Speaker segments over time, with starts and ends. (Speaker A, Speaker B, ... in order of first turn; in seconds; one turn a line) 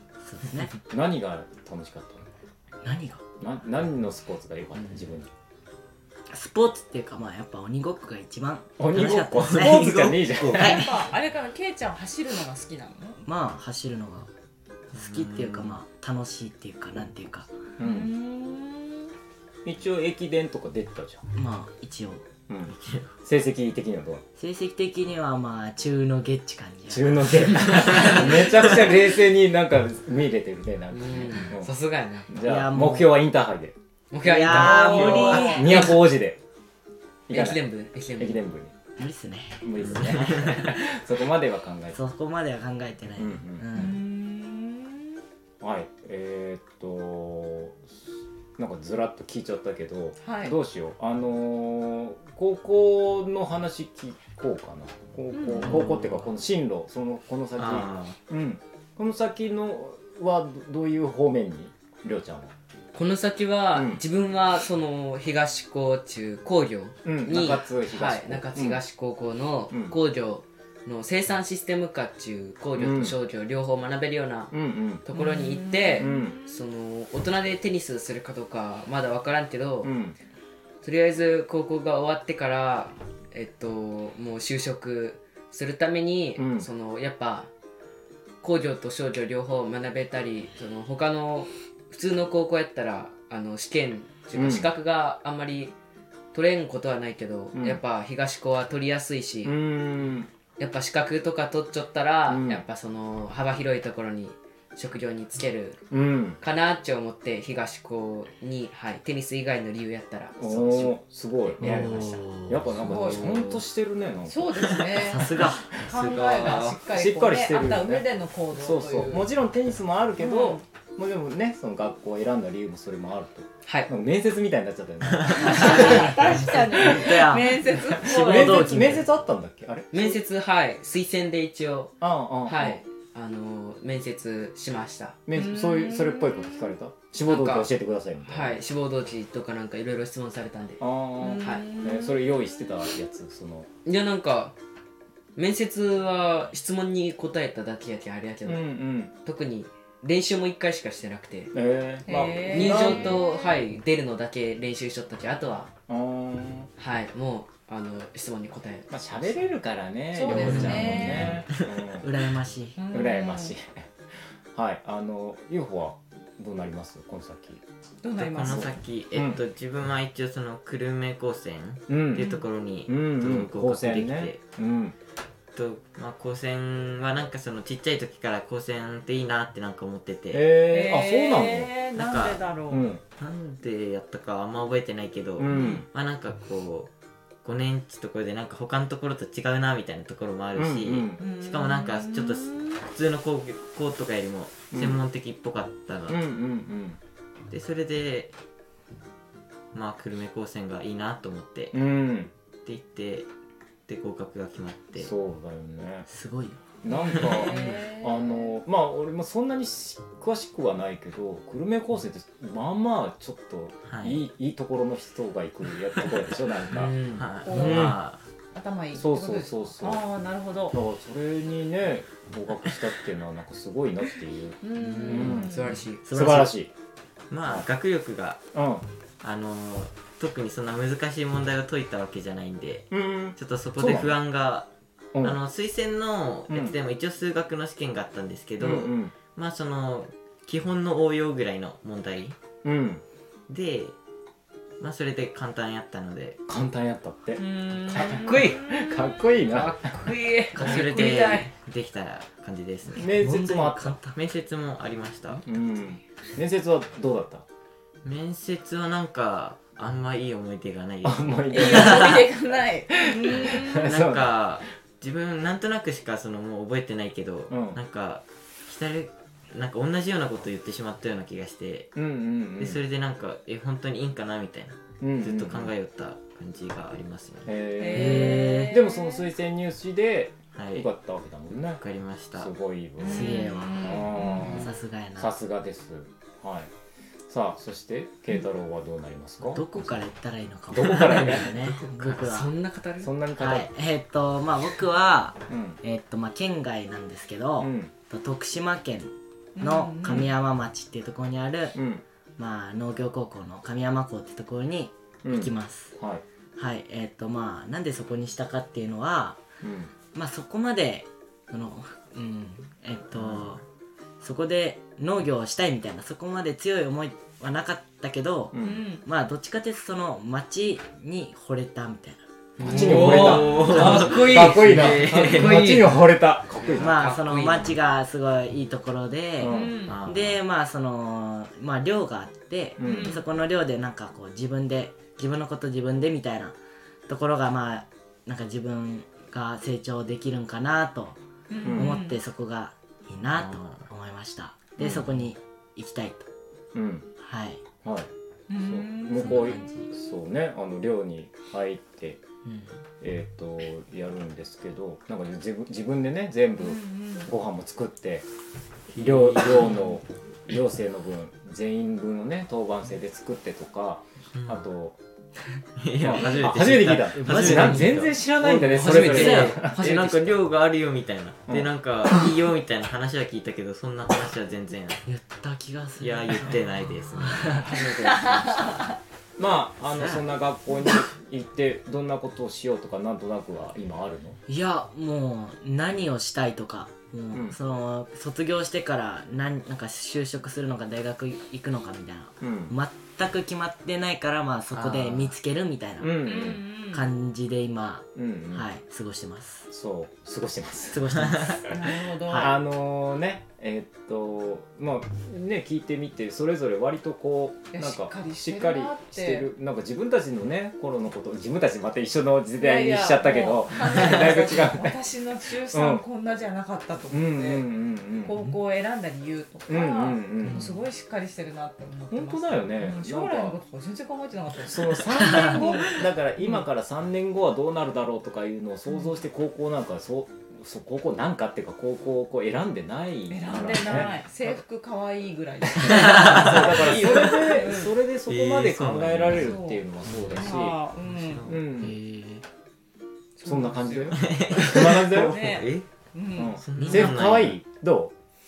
Speaker A: 0.2-0.8
Speaker B: 0.9-2.3
Speaker A: 2.8-3.2
Speaker B: 3.4-5.3
Speaker A: 6.3-10.0
Speaker B: 8.8-10.8
Speaker C: 9.4-10.8
Speaker D: 10.4-13.2
Speaker A: 10.5-10.9
Speaker A: 13.2-14.3
Speaker C: 14.9-15.8
Speaker A: 14.9-17.5
Speaker B: 17.8-18.1
Speaker D: 17.8-19.1
Speaker B: 19.6-21.2
Speaker A: 21.3-22.2
Speaker B: 22.5-24.2
Speaker C: 22.7-23.1
Speaker A: 24.4-28.2
Speaker B: 26.9-31.7
Speaker C: 27.9-28.6
Speaker E: 30.9-32.3
Speaker B: 32.3-33.7
Speaker A: 32.4-33.1
Speaker E: 34.1-36.0
Speaker A: 34.2-35.9
Speaker B: 34.5-36.4
Speaker D: 34.9-35.8
Speaker B: 37.3-37.6
Speaker E: 37.3-38.4
Speaker B: 38.1-38.7
Speaker A: 39.0-39.6
Speaker B: 39.6-42.0
Speaker C: 39.8-40.7
Speaker A: 41.9-44.0
Speaker B: 43.2-43.9
Speaker D: 43.7-45.2
Speaker B: 45.6-47.9
Speaker B: 48.6-62.5
Speaker D: 50.2-50.6
Speaker D: 55.3-56.0
Speaker C: 57.6-58.1
Speaker E: 62.9-79.9
Speaker B: 63.7-64.0
Speaker B: 67.0-68.8
Speaker B: 69.7-70.0
Speaker B: 72.8-73.2
Speaker B: 74.5-75.1
Speaker D: 75.1-76.6
Speaker B: 76.0-76.4
Speaker B: 79.8-80.2
Speaker E: 80.8-87.5
Speaker B: 86.3-86.7
Speaker E: 88.4-95.7
Speaker B: 94.3-94.7
Speaker E: 96.3-99.6
Speaker B: 97.5-97.8
Speaker B: 99.4-100.3
Speaker E: 100.6-105.8
Speaker B: 102.3-102.6
Speaker B: 105.9-106.4
Speaker E: 106.4-111.0
Speaker B: 110.4-130.1
Speaker A: 111.6-113.2
Speaker D: 112.8-113.6
Speaker D: 114.2-119.3
Speaker A: 115.0-115.8
Speaker D: 120.2-120.6
Speaker E: 123.6-123.9
Speaker A: 125.4-129.1
Speaker D: 125.4-128.9
Speaker E: 129.9-135.2
Speaker B: 132.0-132.8
Speaker B: 135.3-138.6
Speaker D: 135.3-136.7
Speaker E: 137.2-137.7
Speaker E: 138.2-140.8
Speaker B: 140.8-143.7
Speaker D: 141.2-142.5
Speaker E: 141.4-141.7
Speaker E: 143.8-144.5
Speaker E: 145.3-148.7
Speaker B: 148.4-149.1
Speaker E: 149.2-151.5
Speaker B: 151.5-153.2
Speaker D: 152.0-153.6
Speaker E: 152.5-155.7
Speaker B: 155.9-156.7
Speaker E: 156.8-158.9
Speaker B: 158.9-162.1
Speaker D: 160.1-161.4
Speaker A: 160.3-161.4
Speaker A: 162.0-162.8
Speaker D: 162.8-163.6
Speaker B: 162.9-163.9
Speaker B: 164.5-167.6
Speaker D: 168.0-168.7
Speaker C: 168.2-174.4
Speaker B: 168.4-169.4
Speaker B: 171.9-172.3
Speaker B: 172.9-174.9
Speaker C: 175.5-180.5
Speaker B: 180.3-181.7
Speaker D: 180.6-182.8
Speaker C: 181.9-182.5
Speaker B: 182.7-183.0
Speaker C: 183.2-186.9
Speaker B: 185.4-185.8
Speaker D: 185.5-185.8
Speaker C: 187.4-196.2
Speaker B: 190.6-191.2
Speaker D: 191.2-192.8
Speaker B: 194.7-195.0
Speaker B: 196.1-197.0
Speaker C: 197.5-198.3
Speaker C: 199.7-201.9
Speaker B: 201.7-202.3
Speaker C: 202.6-203.3
Speaker C: 203.9-205.1
Speaker B: 205.0-206.1
Speaker A: 206.1-206.6
Speaker B: 206.8-216.9
Speaker D: 206.9-208.5
Speaker C: 213.9-214.2
Speaker E: 216.7-217.3
Speaker C: 216.8-218.2
Speaker D: 217.4-217.9
Speaker B: 217.5-217.9
Speaker A: 217.6-217.9
Speaker D: 218.5-220.8
Speaker B: 218.9-220.1
Speaker B: 220.7-225.5
Speaker D: 224.6-225.8
Speaker E: 224.8-226.0
Speaker A: 226.0-226.5
Speaker B: 226.1-226.7
Speaker C: 227.3-228.4
Speaker B: 228.5-228.8
Speaker C: 229.2-234.7
Speaker B: 232.9-234.2
Speaker C: 235.2-242.3
Speaker B: 236.5-236.7
Speaker B: 238.6-239.1
Speaker B: 242.6-243.0
Speaker C: 243.5-243.9
Speaker C: 244.8-246.4
Speaker B: 246.5-250.1
Speaker D: 247.4-249.4
Speaker E: 248.2-248.6
Speaker E: 249.5-251.4
Speaker C: 250.5-253.1
Speaker D: 250.9-251.3
Speaker B: 252.9-254.0
Speaker A: 253.1-254.2
Speaker C: 254.1-255.4
Speaker B: 255.4-257.4
Speaker C: 258.0-262.2
Speaker B: 261.0-262.3
Speaker D: 261.5-263.9
Speaker B: 263.1-264.3
Speaker C: 263.4-272.0
Speaker B: 267.5-267.8
Speaker B: 271.9-272.8
Speaker C: 272.6-277.5
Speaker B: 275.0-275.7
Speaker B: 277.4-281.8
Speaker D: 277.8-279.3
Speaker A: 277.9-278.8
Speaker C: 280.5-280.9
Speaker C: 281.8-282.5
Speaker B: 282.3-286.7
Speaker D: 283.0-284.7
Speaker A: 283.0-285.3
Speaker B: 287.3-290.0
Speaker A: 289.4-292.5
Speaker B: 290.7-291.6
Speaker E: 291.6-293.1
Speaker B: 293.0-293.7
Speaker A: 293.4-301.8
Speaker B: 295.5-295.8
Speaker B: 297.6-297.9
Speaker D: 299.5-300.3
Speaker B: 301.7-302.0
Speaker A: 302.4-305.9
Speaker B: 305.2-306.2
Speaker A: 306.6-309.4
Speaker B: 309.6-309.9
Speaker A: 310.1-313.6
Speaker C: 313.1-313.6
Speaker A: 314.2-324.5
Speaker B: 318.5-318.9
Speaker D: 318.6-319.0
Speaker B: 322.6-327.1
Speaker C: 322.6-325.9
Speaker E: 322.9-325.9
Speaker E: 326.6-327.7
Speaker A: 326.8-336.6
Speaker B: 329.4-329.8
Speaker D: 329.4-330.0
Speaker C: 329.9-330.4
Speaker B: 332.8-333.2
Speaker D: 332.8-333.2
Speaker A: 337.1-346.3
Speaker D: 341.5-342.2
Speaker B: 341.6-342.0
Speaker C: 343.3-343.9
Speaker B: 344.8-345.1
Speaker B: 346.7-347.1
Speaker A: 347.2-347.6
Speaker B: 347.8-352.2
Speaker D: 348.5-349.6
Speaker A: 349.2-349.9
Speaker A: 352.4-352.7
Speaker B: 353.0-358.2
Speaker D: 356.6-357.3
Speaker B: 358.9-365.0
Speaker C: 358.9-359.9
Speaker C: 364.3-364.6
Speaker C: 365.8-375.0
Speaker B: 366.0-370.3
Speaker A: 367.1-368.1
Speaker E: 368.5-369.6
Speaker A: 375.1-378.7
Speaker C: 376.0-377.8
Speaker B: 377.7-378.1
Speaker D: 377.9-378.9
Speaker B: 379.4-384.4
Speaker A: 384.5-399.7
Speaker B: 392.4-392.7
Speaker C: 394.7-395.3
Speaker B: 396.0-396.6
Speaker D: 396.1-397.1
Speaker B: 398.1-398.6
Speaker B: 399.7-415.0
Speaker A: 400.9-401.7
Speaker C: 401.2-401.5
Speaker D: 401.6-402.5
Speaker A: 402.3-402.5
Speaker D: 407.7-409.5
Speaker D: 412.6-426.6
Speaker B: 415.7-416.0
Speaker B: 417.1-418.4
Speaker B: 419.7-420.7
Speaker A: 420.4-420.7
Speaker B: 422.1-423.6
Speaker B: 424.6-434.2
Speaker D: 433.3-437.9
Speaker B: 435.7-440.8
Speaker C: 436.0-437.3
Speaker C: 438.3-439.6
Speaker D: 439.3-441.5
Speaker C: 441.1-441.6
Speaker B: 441.4-441.9
Speaker A: 441.8-442.4
Speaker D: 443.4-446.6
Speaker B: 443.4-445.4
Speaker C: 444.1-445.9
Speaker B: 446.4-448.1
Speaker C: 446.6-447.6
Speaker A: 446.8-447.1